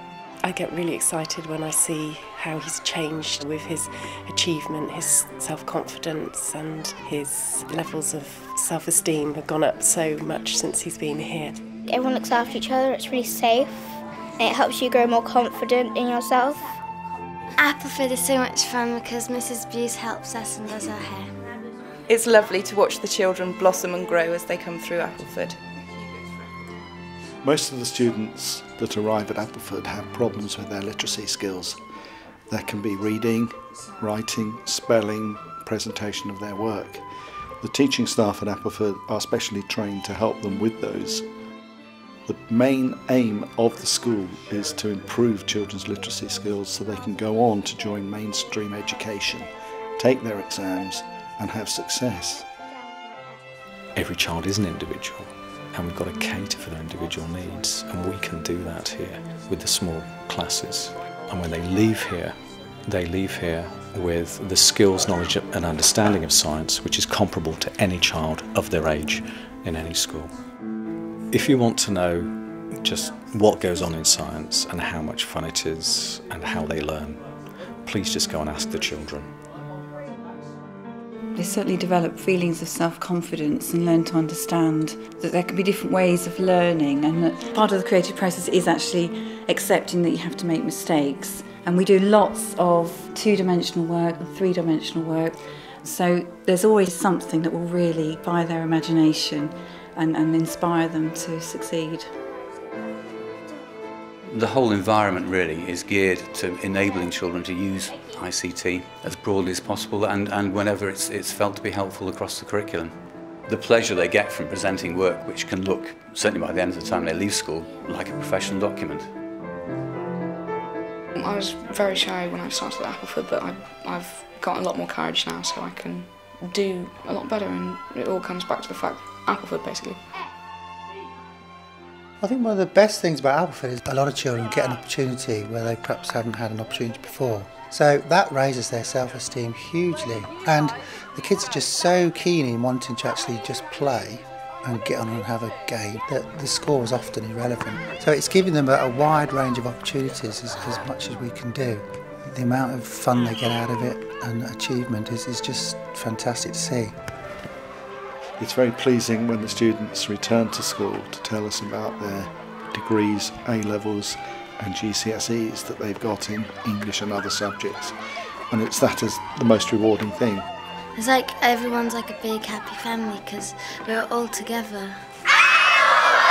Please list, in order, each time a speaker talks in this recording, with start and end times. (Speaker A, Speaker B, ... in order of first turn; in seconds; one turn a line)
Speaker A: 0.4-11.6
Speaker B: 11.8-16.8
Speaker C: 17.6-21.3
Speaker D: 22.1-25.6
Speaker E: 27.4-31.8
Speaker E: 32.5-37.0
Speaker E: 37.6-41.2
Speaker E: 42.3-52.5
Speaker F: 54.0-70.3
Speaker F: 71.3-77.2
Speaker F: 77.8-79.3
Speaker G: 81.3-102.1
Speaker H: 104.3-112.9
Speaker H: 113.5-119.1
Speaker I: 121.1-130.0
Speaker J: 132.2-156.9
Speaker E: 158.4-167.9
Speaker E: 168.5-170.5
Speaker C: 170.9-175.1